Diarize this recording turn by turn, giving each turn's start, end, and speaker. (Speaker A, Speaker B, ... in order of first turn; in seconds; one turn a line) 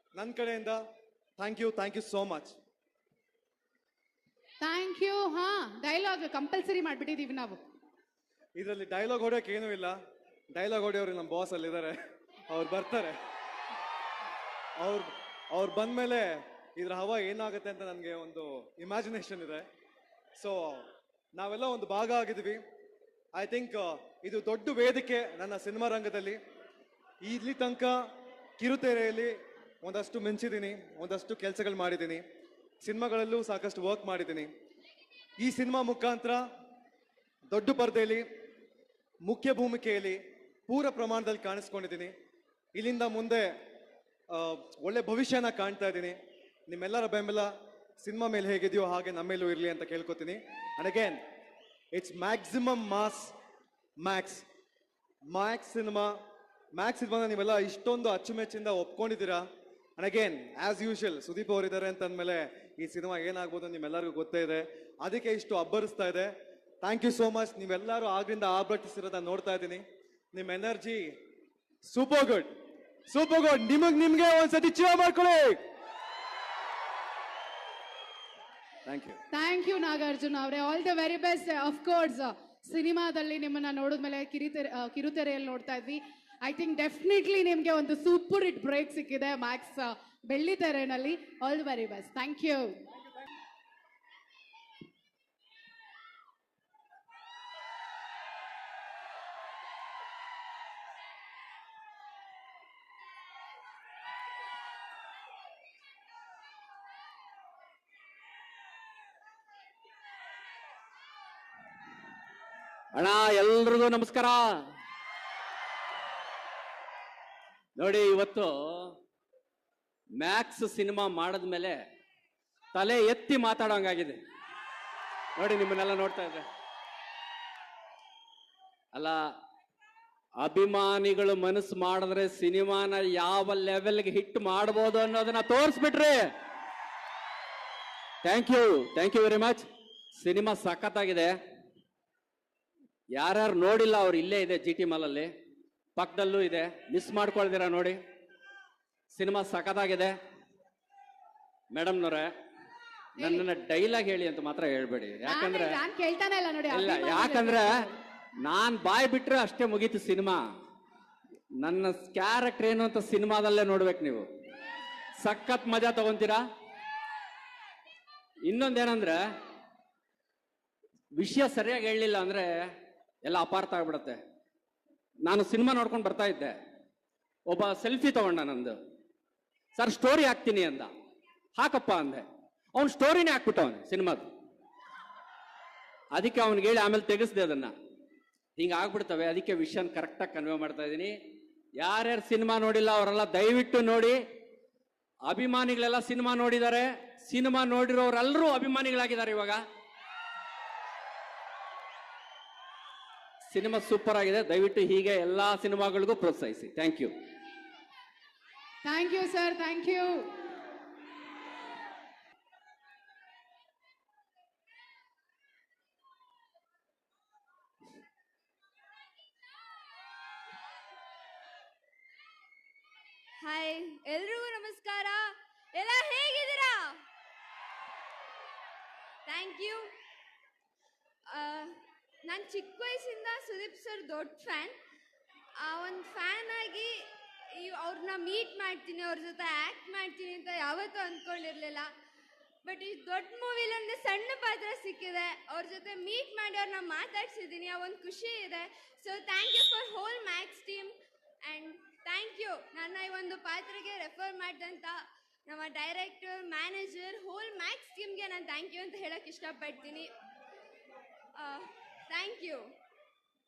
Speaker A: 0.1-0.8
Speaker A: 1.4-2.5
Speaker B: 4.6-7.6
Speaker A: 8.6-10.0
Speaker A: 10.5-11.9
Speaker A: 12.5-13.2
Speaker A: 14.8-19.6
Speaker A: 20.4-20.9
Speaker A: 21.4-22.6
Speaker A: 23.3-26.4
Speaker A: 27.2-28.0
Speaker A: 28.6-32.2
Speaker A: 32.8-34.5
Speaker A: 35.4-36.4
Speaker A: 37.5-38.2
Speaker A: 39.2-42.1
Speaker A: 42.7-43.5
Speaker A: 44.3-51.2
Speaker A: 51.9-53.3
Speaker A: 54.0-54.4
Speaker A: 55.3-56.1
Speaker A: 56.8-59.4
Speaker A: 60.0-71.1
Speaker A: 71.8-72.5
Speaker A: 73.1-75.6
Speaker C: 78.8-79.2
Speaker B: 79.3-92.8
Speaker C: 112.9-114.6
Speaker C: 117.8-119.0
Speaker C: 120.2-121.8
Speaker C: 122.7-124.2
Speaker C: 125.4-126.4
Speaker C: 128.9-129.2
Speaker C: 130.4-136.3
Speaker C: 138.2-141.3
Speaker C: 143.1-145.3
Speaker C: 146.0-148.0
Speaker C: 149.1-150.1
Speaker C: 151.7-152.3
Speaker B: 153.2-153.4
Speaker C: 153.2-155.8
Speaker B: 155.2-157.9
Speaker C: 156.7-157.8
Speaker C: 158.4-160.4
Speaker C: 161.6-164.3
Speaker C: 165.2-166.4
Speaker C: 168.5-169.2
Speaker C: 171.2-172.7
Speaker C: 173.2-174.2
Speaker C: 175.2-176.6
Speaker C: 177.5-178.8
Speaker C: 179.8-180.9
Speaker C: 181.6-184.3
Speaker C: 186.2-187.7
Speaker C: 188.6-191.1
Speaker C: 191.8-194.2
Speaker C: 195.3-199.6
Speaker C: 203.5-207.1
Speaker B: 208.8-210.3
Speaker D: 223.4-227.0
Speaker D: 229.3-229.9
Speaker D: 231.3-234.8
Speaker D: 235.6-241.9
Speaker D: 242.6-250.9
Speaker D: 251.4-260.1
Speaker D: 261.4-262.7